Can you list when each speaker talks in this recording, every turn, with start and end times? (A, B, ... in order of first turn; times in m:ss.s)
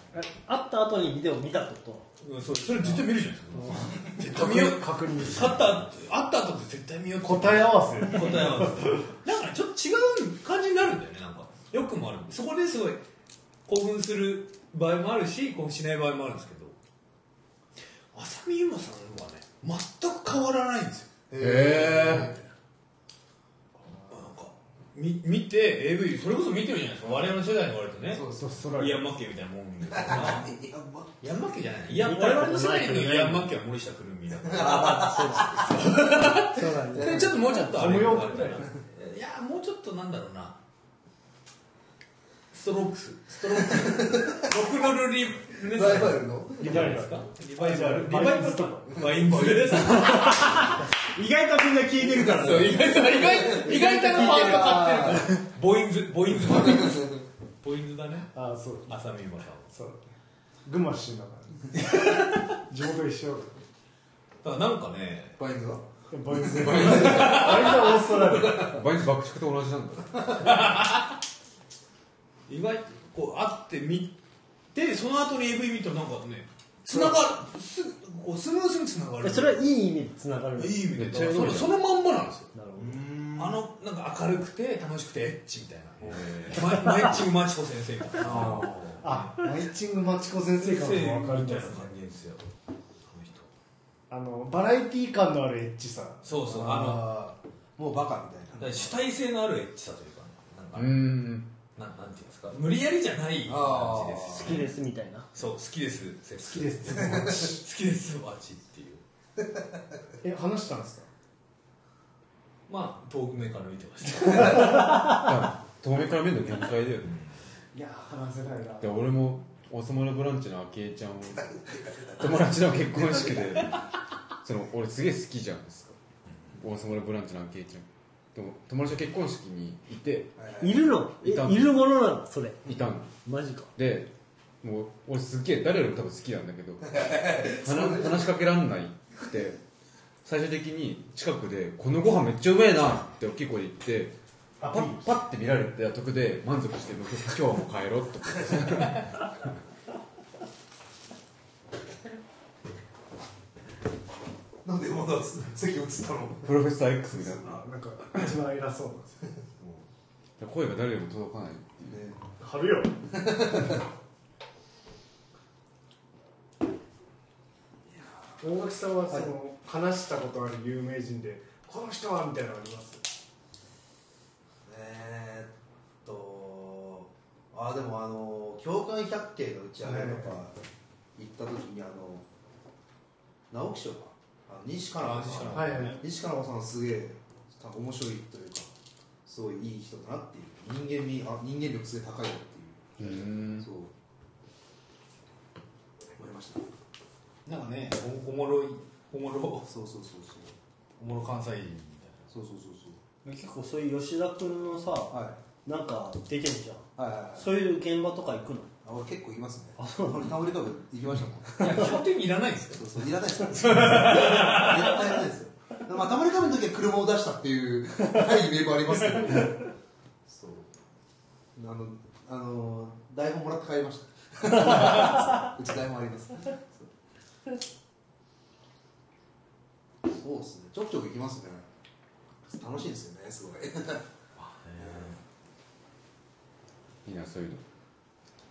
0:00.1-0:02.1 A
0:02.2-0:13.0 B
0:03.5-0:05.8 C
0:07.2-0:09.0 C
0:13.7-0:16.8 B
0:18.1-0:21.1 B
0:21.3-0:22.4 D
0:21.4-0:22.3 E
0:24.1-0:28.2 B
0:28.1-0:28.6 D
0:28.4-0:29.1 C
0:28.7-0:30.5 B
0:29.9-0:31.2 D
0:31.2-0:40.6 B
0:31.9-0:33.5 A
0:34.4-0:35.3 D
0:34.5-0:37.9 A
0:36.6-0:38.7 C
0:42.5-0:50.8 B
0:43.6-0:44.5 D
0:45.6-0:46.9 D
0:46.6-0:48.9 C
0:48.9-0:50.2 D
0:49.7-0:53.0 A
0:52.1-0:55.4 D
0:52.2-0:57.1 B
0:54.2-0:54.7 A
0:56.3-0:57.2 D
0:57.6-0:58.3 B
0:58.3-0:59.0 C
0:58.9-0:59.7 B
0:59.7-1:00.1 C
1:00.6-1:03.6 C
1:01.8-1:02.5 B
1:04.4-1:05.4 B
1:05.4-1:08.8 D
1:06.1-1:08.8 C
1:06.7-1:08.1 B
1:08.6-1:10.2 E
1:10.1-1:10.5 D
1:10.4-1:11.2 B
1:12.5-1:14.1 B
1:14.7-1:19.6 B
1:16.9-1:17.2 D
1:19.2-1:20.9 A
1:20.6-1:22.5 B
1:20.9-1:21.7 E
1:22.5-1:23.0 A
1:22.8-1:23.6 D
1:23.4-1:29.4 B
1:26.0-1:26.6 D
1:28.2-1:29.0 D
1:29.0-1:31.9 C
1:30.5-1:32.4 B
1:33.0-1:33.5 B
1:34.1-1:36.3 C
1:36.2-1:37.1 B
1:36.4-1:39.0 D
1:38.6-1:41.2 B
1:40.7-1:41.5 E
1:41.8-1:44.7 B
1:43.4-1:44.6 D
1:44.3-1:45.3 A
1:45.3-1:49.0 B
1:46.4-1:47.6 C
1:47.0-1:47.3 D
1:50.2-1:51.1 C
1:52.7-1:55.1 B
1:54.6-1:57.1 E
1:57.0-1:57.3 B
1:57.7-1:58.9 C
1:58.8-2:03.8 E
2:01.4-2:03.5 D
2:04.4-2:06.0 E
2:06.6-2:10.3 E
2:10.4-2:10.8 D
2:10.6-2:12.7 A
2:11.2-2:11.7 E
2:12.6-2:13.1 E
2:13.2-2:13.7 A
2:13.8-2:14.1 E
2:14.6-2:19.6 E
2:16.8-2:18.2 D
2:20.2-2:29.1 E
2:24.6-2:25.1 C
2:34.6-2:36.6 D
2:36.4-2:37.6 E
2:37.1-2:39.3 C
2:39.4-2:39.8 D
2:40.4-2:42.0 E
2:41.9-2:42.2 D
2:42.4-2:43.0 C
2:43.1-2:43.8 D
2:47.9-2:48.4 D
2:48.4-2:53.0 C
2:54.6-3:00.5 D
2:59.8-3:00.3 C
3:01.2-3:02.2 D
3:03.5-3:08.7 D
3:05.0-3:06.0 B
3:05.5-3:06.0 C
3:09.2-3:13.9 D
3:13.0-3:13.7 E
3:16.2-3:16.7 D
3:17.4-3:19.7 B
3:19.6-3:20.5 D
3:21.0-3:22.3 B
3:22.3-3:23.0 D
3:23.2-3:28.7 A
3:25.1-3:25.4 D
3:27.0-3:27.5 D
3:28.8-3:32.0 D
3:29.8-3:30.3 A
3:31.6-3:35.0 B
3:32.7-3:39.7 D
3:40.2-3:40.7 D
3:41.6-3:46.9 D
3:50.0-3:51.6 D
3:52.5-3:54.0 D
3:54.4-3:55.2 B
3:54.8-3:55.2 D
3:57.0-3:57.6 E